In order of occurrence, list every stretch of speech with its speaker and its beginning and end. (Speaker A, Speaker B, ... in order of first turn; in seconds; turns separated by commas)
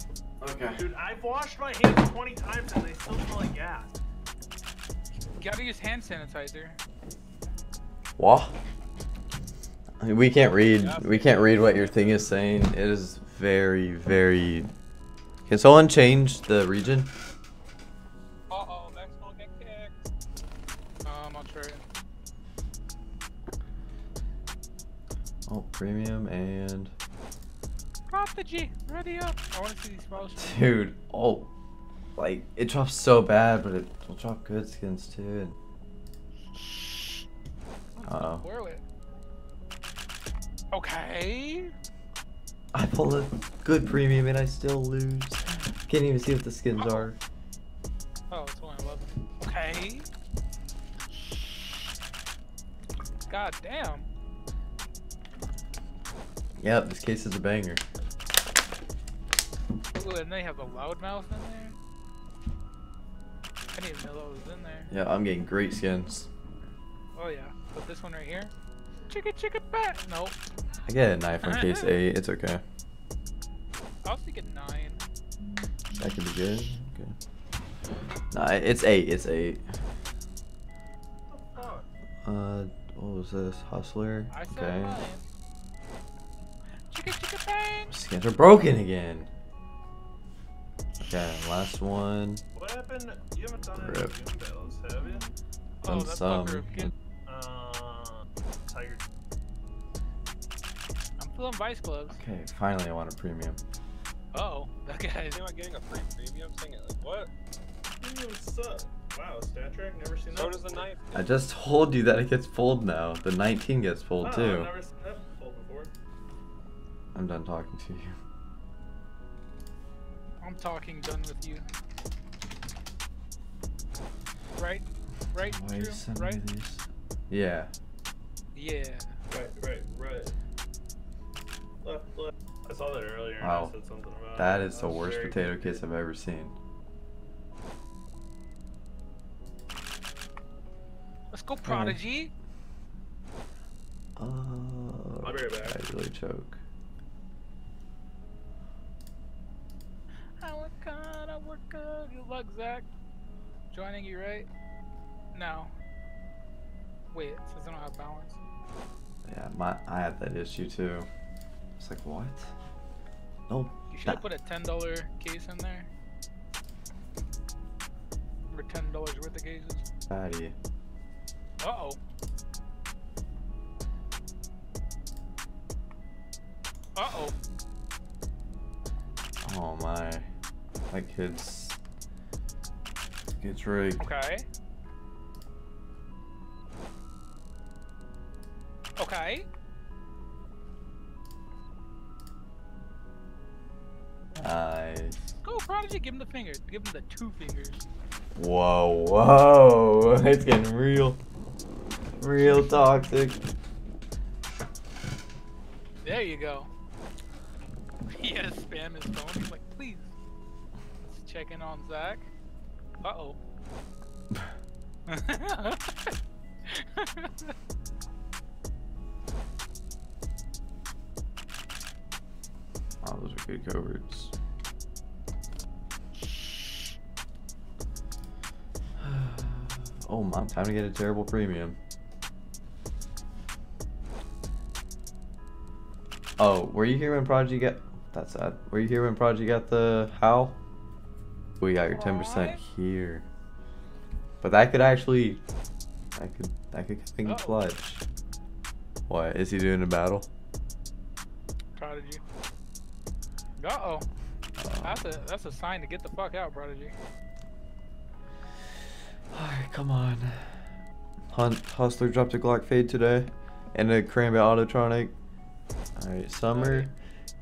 Speaker A: 0.4-0.8, Speaker B: 0.7-3.9, Speaker C: 5.3-6.8, Speaker A: 8.2-8.5, Speaker A: 10.0-14.7, Speaker D: 10.6-12.3, Speaker A: 15.5-17.1, Speaker D: 18.5-20.1, Speaker C: 21.0-21.9, Speaker A: 25.5-26.9, Speaker C: 28.1-30.8, Speaker A: 30.3-31.5, Speaker A: 32.2-35.5, Speaker C: 38.0-38.8, Speaker A: 38.0-38.5, Speaker C: 40.7-41.7, Speaker A: 42.7-47.2, Speaker C: 46.8-47.1, Speaker C: 48.3-50.1, Speaker C: 53.3-54.1, Speaker A: 56.6-57.8, Speaker C: 59.9-61.8, Speaker C: 63.7-64.9, Speaker A: 64.9-66.3, Speaker C: 67.2-68.5, Speaker C: 69.1-70.4, Speaker A: 70.9-72.6, Speaker C: 71.4-71.9, Speaker C: 74.0-75.0, Speaker A: 76.0-77.2, Speaker A: 78.3-79.6, Speaker B: 81.3-81.9, Speaker A: 82.2-85.0, Speaker C: 84.3-85.2, Speaker C: 86.9-87.9, Speaker A: 87.9-89.3, Speaker A: 91.0-92.4, Speaker B: 92.5-95.3, Speaker A: 93.7-94.1, Speaker C: 95.8-96.9, Speaker A: 95.8-96.9, Speaker B: 97.3-99.1, Speaker C: 101.2-102.2, Speaker A: 102.1-103.6, Speaker C: 104.3-105.4, Speaker D: 105.3-107.3, Speaker B: 108.0-110.9, Speaker D: 110.3-111.3, Speaker A: 111.1-114.7, Speaker B: 114.2-115.9, Speaker A: 117.2-118.2, Speaker C: 120.4-121.7, Speaker C: 124.6-126.4, Speaker A: 125.4-127.7, Speaker C: 128.6-129.2, Speaker B: 129.3-130.3, Speaker B: 131.8-135.8, Speaker A: 133.4-133.8, Speaker A: 134.4-136.6, Speaker C: 141.3-142.3, Speaker A: 141.6-142.0, Speaker A: 144.2-146.6, Speaker B: 145.2-145.8, Speaker C: 150.4-152.9, Speaker C: 153.7-154.5, Speaker C: 155.3-155.7, Speaker C: 157.1-158.4, Speaker A: 159.2-161.1, Speaker A: 161.8-162.5, Speaker A: 163.5-164.2, Speaker C: 163.9-165.9, Speaker C: 168.5-169.9, Speaker A: 170.1-170.6, Speaker C: 171.6-172.0, Speaker C: 176.9-177.4, Speaker A: 179.4-180.3, Speaker A: 180.9-181.8, Speaker A: 183.4-184.1, Speaker C: 184.0-184.5, Speaker C: 189.0-189.5, Speaker A: 194.3-195.2, Speaker C: 195.4-197.8, Speaker A: 198.4-201.2, Speaker A: 202.2-203.4, Speaker C: 206.0-206.7, Speaker C: 208.2-210.1, Speaker C: 211.0-212.3, Speaker C: 213.0-213.4, Speaker C: 215.1-216.1, Speaker C: 216.7-217.5, Speaker A: 223.0-224.3, Speaker A: 229.0-231.8, Speaker A: 236.4-240.6, Speaker A: 241.6-243.3, Speaker C: 241.8-242.6, Speaker A: 244.4-245.4, Speaker A: 246.2-248.0, Speaker C: 247.2-247.7, Speaker A: 249.1-250.3, Speaker C: 251.8-252.2, Speaker C: 253.6-254.1, Speaker A: 254.6-255.2, Speaker C: 254.8-256.9, Speaker A: 259.3-260.7, Speaker A: 261.3-265.1, Speaker A: 266.0-266.9, Speaker C: 266.5-266.9